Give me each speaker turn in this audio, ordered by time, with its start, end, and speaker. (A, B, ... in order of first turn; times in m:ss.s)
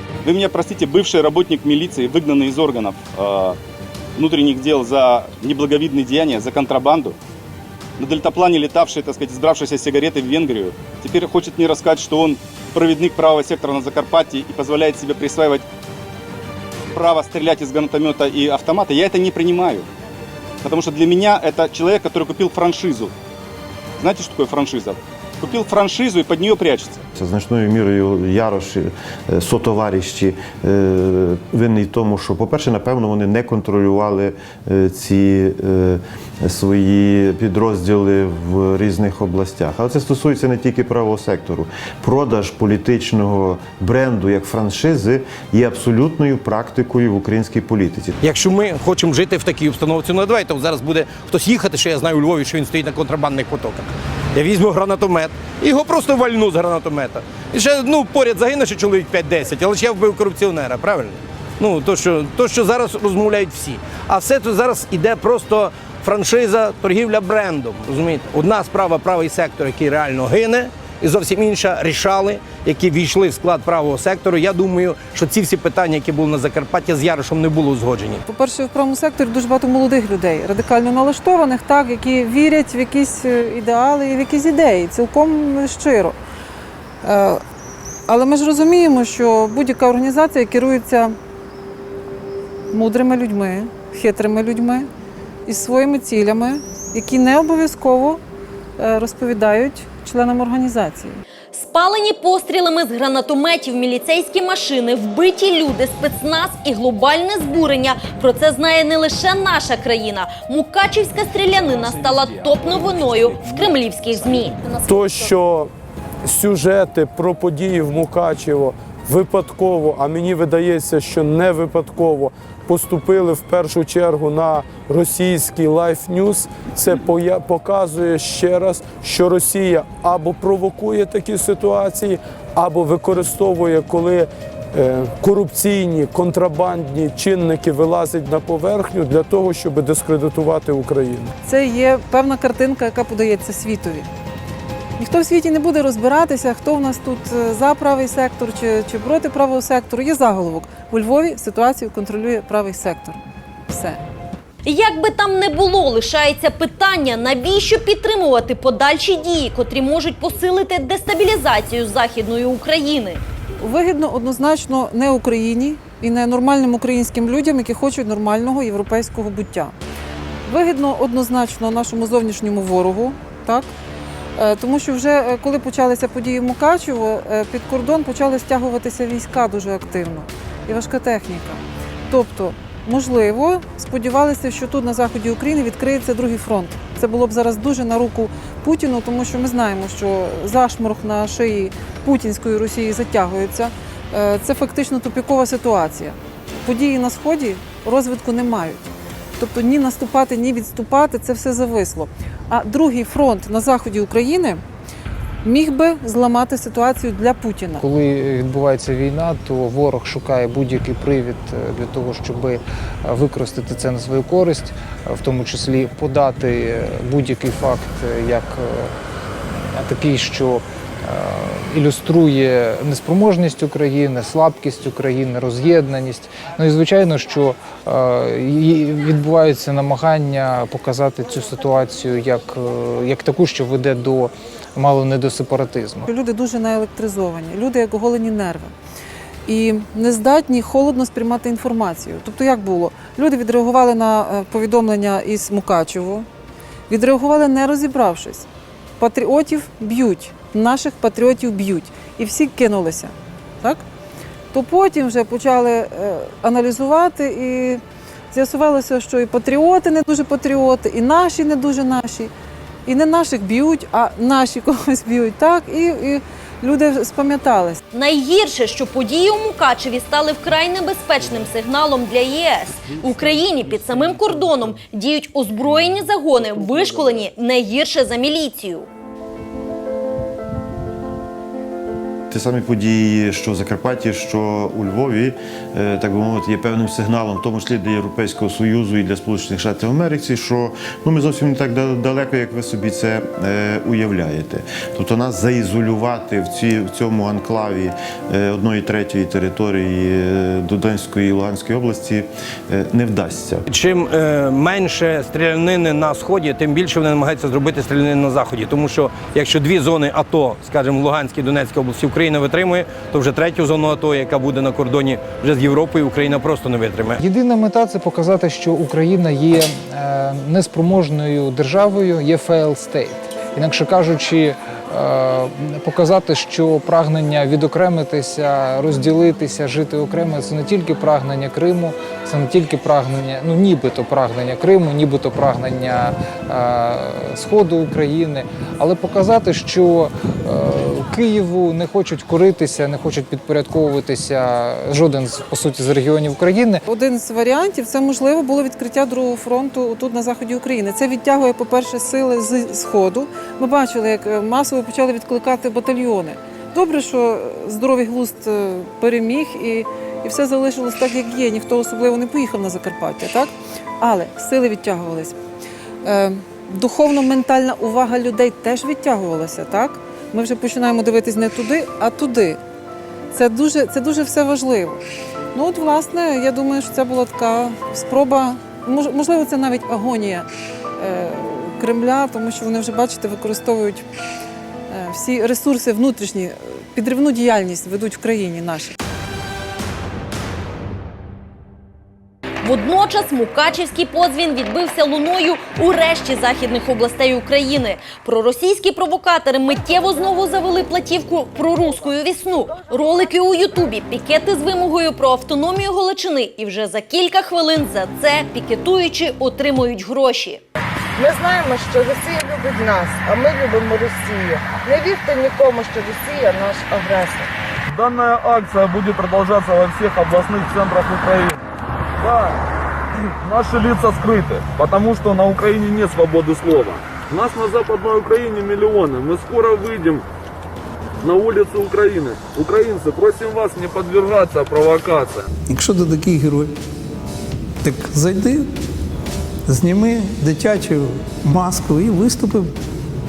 0:00.2-0:03.6 A
0:04.2-0:07.2 A
0:08.0-0:15.6 A
0:16.9-0:19.9 A
0:20.6-0:23.1 A
0:24.0-0:27.0 A
0:27.2-0:48.2 B
0:48.2-1:18.2 C
1:18.3-1:26.2 D
1:27.0-1:27.4 D
1:28.1-1:31.2 D
1:32.7-1:34.9 D
1:35.4-1:38.2 D
1:38.8-1:41.2 D
1:41.5-1:54.6 E
1:54.8-1:55.7 F
1:56.2-2:21.3 F
2:21.4-2:24.1 D
2:25.0-2:34.0 D
2:34.6-2:43.2 E
2:43.6-2:49.7 D
2:50.5-2:53.7 D
2:54.4-3:24.6 D
3:25.4-3:27.8 D
3:27.8-3:38.9 G
3:39.7-3:56.1 G
3:56.1-3:58.7 D
3:59.5-4:06.3 D
4:06.9-4:08.4 D
4:09.0-4:13.8 D
4:14.5-4:17.8 D
4:18.3-4:22.3 D
4:22.8-4:27.8 D
4:27.9-4:38.9 E
4:42.3-5:03.6 B
5:03.7-5:17.2 C
5:17.2-5:46.8 G
5:46.9-6:05.3 D
6:06.0-6:12.6 D
6:13.3-6:15.0 D
6:15.5-6:24.0 D
6:24.9-6:29.0 D
6:32.6-6:50.6 E
6:51.2-6:57.5 H
6:57.9-7:01.6 I
7:02.2-7:02.6 I
7:03.4-7:10.2 I
7:11.2-7:15.5 I
7:15.7-7:16.8 J
7:17.8-7:18.7 J
7:19.7-7:22.7 J